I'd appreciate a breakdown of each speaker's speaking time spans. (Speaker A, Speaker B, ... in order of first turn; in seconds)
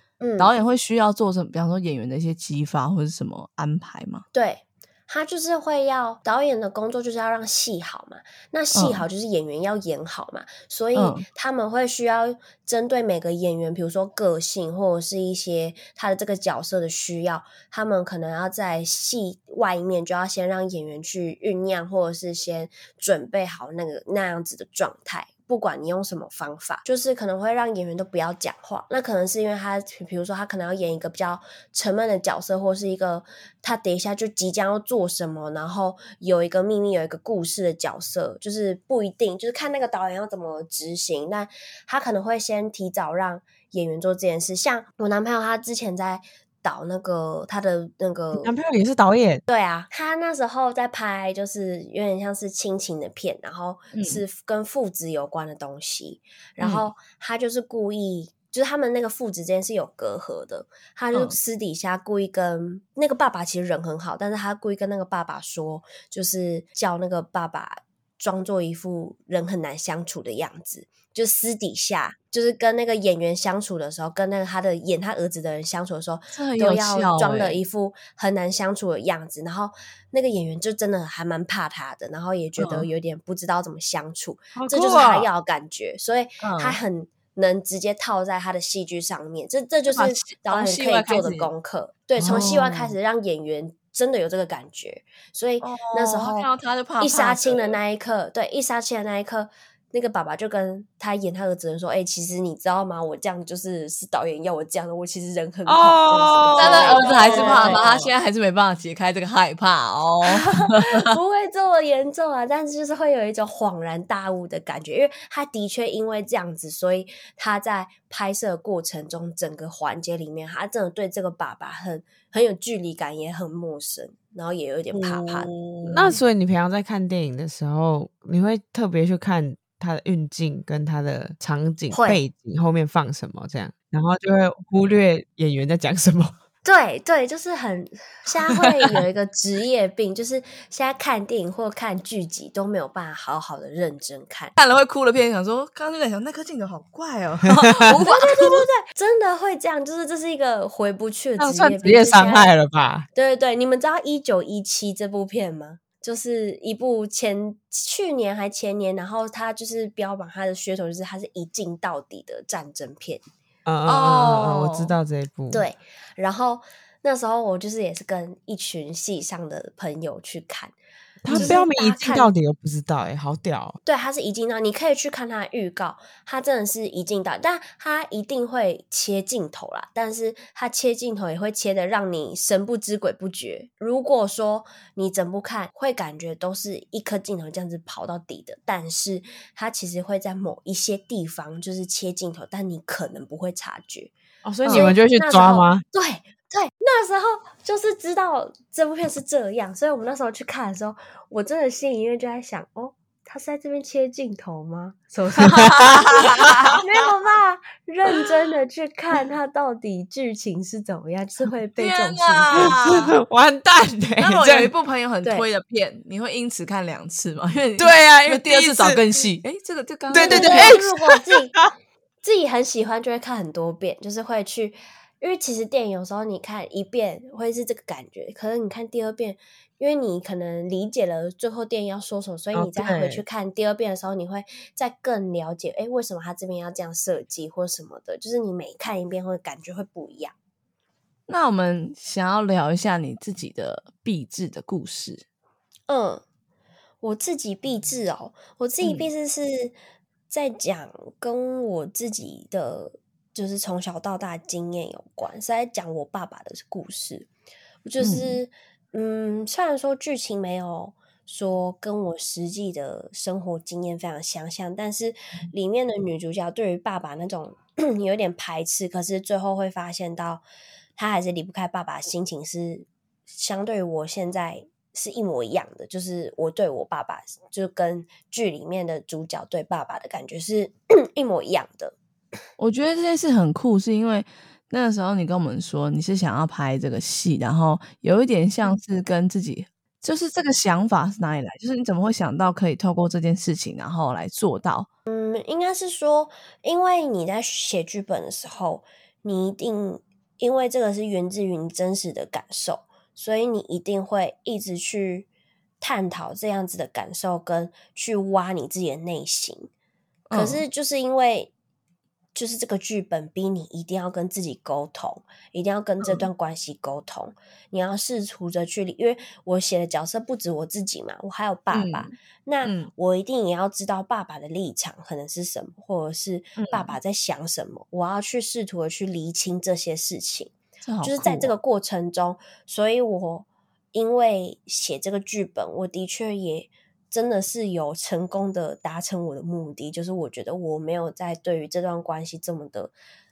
Speaker A: 0.2-0.5, 4.3-48.5, 49.5-107.9, 110.3-125.5, 131.9-132.2, 136.6-144.6, 147.9-152.5, 153.2-163.2, 165.5-170.7, 171.3-172.3, 173.8-194.1, 194.7-212.8, 220.2-221.6, 222.2-240.3, 245.9-246.2, 247.0-249.8, 250.3-257.3, 257.9-270.4, 271.0-281.9, 295.1-305.3, 305.8-309.7, 310.3-311.5, 312.4-342.9
Speaker B: 0.4-4.2, 8.7-9.1, 10.9-11.3, 53.9-54.2, 56.6-56.9, 76.3-77.6, 82.6-82.9, 86.4-86.8, 89.9-91.5, 92.2-92.9, 95.6-97.8, 106.5-111.1, 124.9-126.2, 144.6-148.7, 163.9-164.9, 171.3-171.6, 194.7-195.0, 205.4-206.8, 211.8-213.2, 214.2-220.8, 241.3-245.2, 248.8-249.1, 258.0-258.4, 282.6-294.9, 310.3-310.6, 316.0-316.3, 321.7-322.9, 326.6-326.9, 330.8-331.5
Speaker C: 48.3-49.4, 84.5-85.3, 105.7-108.1, 125.9-136.3, 151.4-153.1, 163.7-165.7, 171.2-173.8, 194.4-195.8, 205.5-206.8, 212.6-214.7, 217.8-219.0, 220.1-221.7, 232.5-233.2